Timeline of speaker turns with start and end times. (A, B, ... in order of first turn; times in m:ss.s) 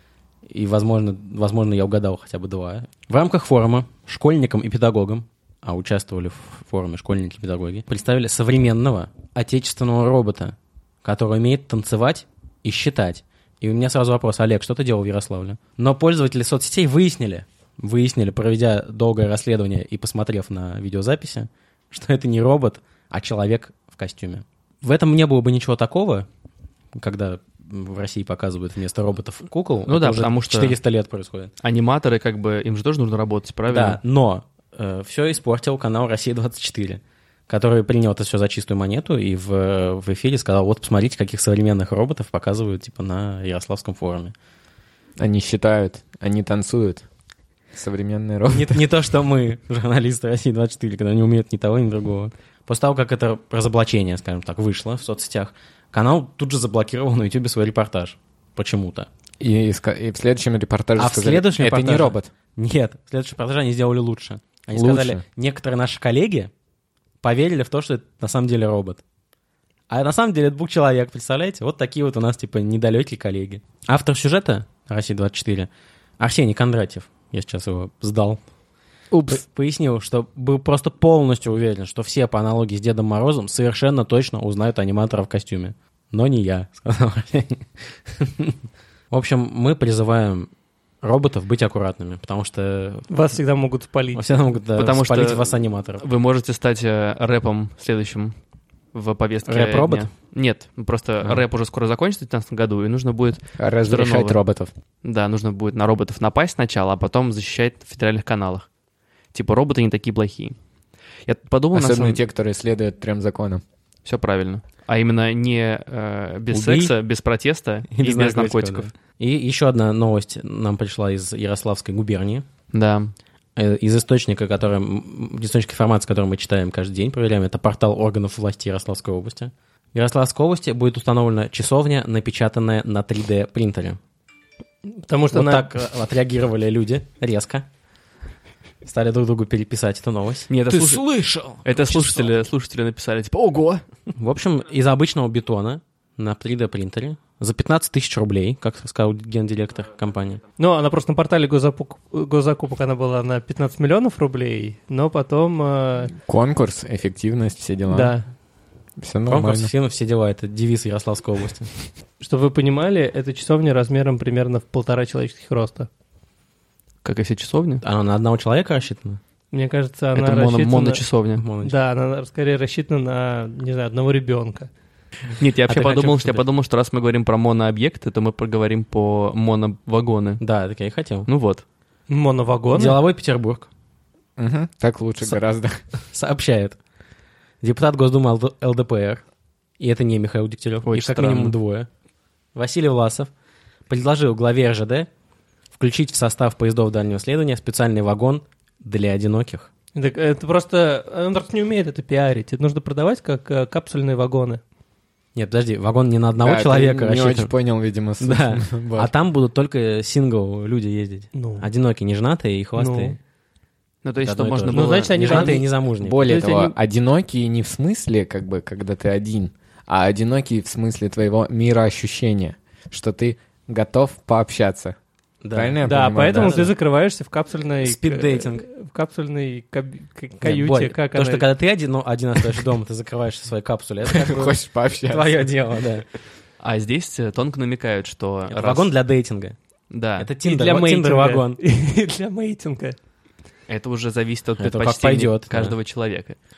0:00.5-0:26.3 A
0:27.0-0:31.5 A
0:29.9-0:30.8 B
0:31.6-0:34.0 B
0:33.7-0:44.3 A
0:45.2-0:47.0 C
0:47.7-0:48.8 C
0:48.5-0:59.1 A
0:59.4-1:02.3 C
1:01.0-1:06.5 A
1:04.7-1:05.2 C
1:07.2-1:09.0 A
1:09.9-1:18.4 A
1:19.1-1:19.4 C
1:19.3-1:28.6 A
1:29.1-1:30.5 A
1:31.0-1:33.1 A
1:33.1-1:34.3 D
1:34.2-1:36.0 A
1:34.8-1:38.4 B
1:38.9-1:44.4 B
1:39.5-1:40.1 A
1:43.6-1:44.7 C
1:45.0-1:48.7 B
1:49.3-1:50.6 B
1:51.3-1:52.2 B
1:51.7-1:53.6 C
1:54.0-1:58.9 B
1:56.5-1:56.9 A
1:57.9-2:02.5 A
2:02.7-2:03.1 B
2:03.6-2:14.0 A
2:14.9-2:15.7 D
2:15.3-2:17.6 A
2:18.8-2:20.5 A
2:20.5-2:21.0 B
2:20.7-2:21.8 C
2:21.6-2:23.8 B
2:24.1-2:30.4 A
2:30.6-2:36.1 D
2:36.2-2:38.2 C
2:37.9-2:38.3 D
2:39.0-2:39.7 C
2:39.3-2:41.7 A
2:42.2-2:45.9 D
2:47.0-2:47.8 B
2:47.8-2:49.2 A
2:49.5-2:51.0 D
2:50.2-2:51.4 B
2:51.4-2:51.8 A
2:51.6-2:54.7 D
2:55.4-3:00.4 B
2:55.7-2:56.4 A
3:00.4-3:01.3 A
3:01.3-3:01.6 B
3:02.1-3:03.0 D
3:02.7-3:03.7 A
3:04.4-3:05.8 C
3:06.1-3:06.8 A
3:07.6-3:09.2 A
3:09.8-3:11.9 A
3:10.8-3:11.6 B
3:12.6-3:13.3 A
3:13.9-3:15.1 A
3:15.7-3:19.7 A
3:20.0-3:24.6 D
3:25.4-3:27.5 A
3:26.4-3:29.1 C
3:28.2-3:33.2 A
3:31.3-3:31.7 D
3:32.8-3:33.2 D
3:34.0-3:35.6 B
3:34.2-3:36.3 A
3:34.7-3:35.7 D
3:36.0-3:45.0 C
3:36.2-3:36.7 D
3:45.4-3:46.7 A
3:45.5-3:46.7 C
3:45.8-3:51.5 D
3:47.8-3:48.7 A
3:50.4-3:56.1 A
3:54.1-3:55.5 C
3:56.6-3:58.9 B
3:58.5-3:59.6 A
3:59.9-4:00.3 B
4:00.2-4:01.6 A
4:00.4-4:03.0 D
4:03.7-4:06.4 B
4:04.6-4:05.8 A